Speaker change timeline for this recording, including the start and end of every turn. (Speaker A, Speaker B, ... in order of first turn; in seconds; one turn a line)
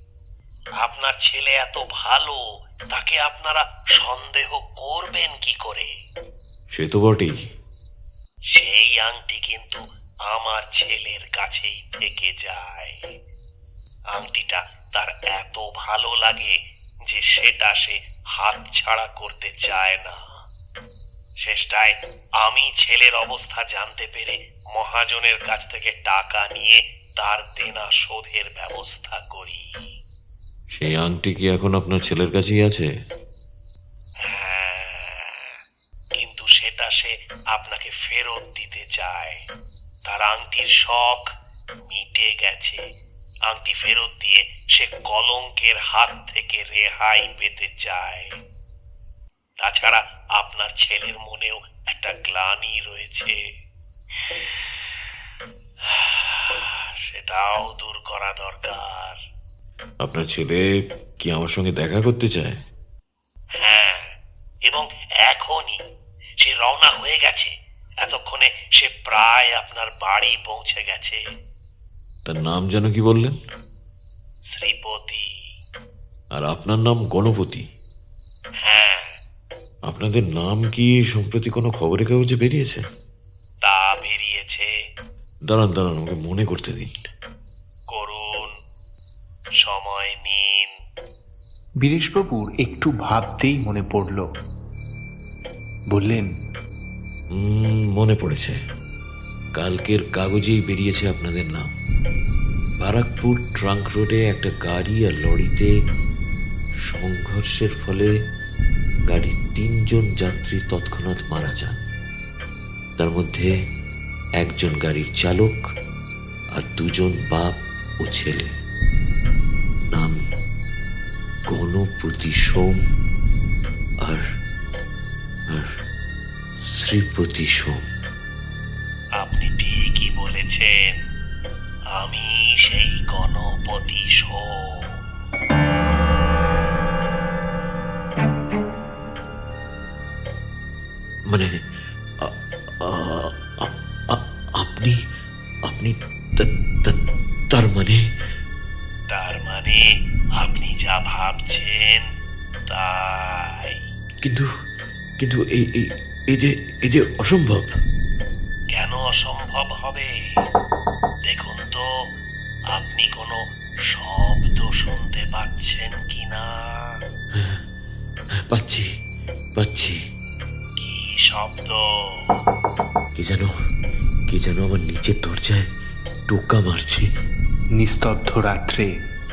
Speaker A: 0.8-2.4
Speaker A: 2.9-5.9
Speaker B: 6.7-7.4
Speaker A: 8.5-13.0
Speaker A: 14.1-16.5
Speaker A: 17.1-20.2
Speaker A: 21.4-29.7
Speaker B: 30.7-32.9
Speaker A: 34.2-35.5
Speaker A: 36.1-39.4
Speaker A: 40.1-41.3
Speaker A: 41.9-42.8
Speaker A: 43.5-48.3
Speaker A: 49.6-53.4
Speaker A: 54.2-55.1
Speaker A: 55.9-59.2
Speaker B: 60.0-60.6
Speaker B: 61.2-62.5
Speaker A: 63.6-64.0
Speaker A: 64.7-65.8
Speaker A: 66.4-71.2
Speaker B: 72.2-73.4
Speaker A: 74.5-75.2
Speaker B: 76.3-77.6
Speaker A: 78.6-79.1
Speaker B: 79.9-82.8
Speaker A: 83.6-84.7
Speaker B: 85.5-86.9
Speaker A: 87.9-88.5
Speaker A: 89.6-90.7
Speaker C: 91.8-94.2
Speaker C: 95.9-96.3
Speaker B: 97.3-98.6
Speaker B: 99.5-101.7
Speaker B: 102.8-105.7
Speaker B: 106.9-108.1
Speaker B: 109.1-111.8
Speaker B: 113.0-113.5
Speaker B: 114.4-115.6
Speaker B: 116.5-118.5
Speaker B: 119.9-120.2
Speaker B: 121.5-122.8
Speaker B: 126.7-127.8
Speaker A: 129.2-130.7
Speaker A: 132.0-135.0
Speaker B: 142.2-144.9
Speaker B: 145.7-147.0
Speaker B: 147.5-148.0
Speaker A: 149.1-149.8
Speaker A: 150.4-152.0
Speaker A: 152.7-153.8
Speaker B: 154.2-154.5
Speaker B: 155.2-157.7
Speaker A: 158.7-160.1
Speaker A: 161.3-161.9
Speaker A: 162.7-163.4
Speaker A: 163.9-167.0
Speaker B: 167.3-167.6
Speaker B: 168.5-168.9
Speaker B: 169.6-170.0
Speaker A: 170.8-172.3
Speaker B: 173.1-173.5
Speaker B: 174.3-175.7
Speaker B: 176.3-177.1
Speaker C: 177.8-178.9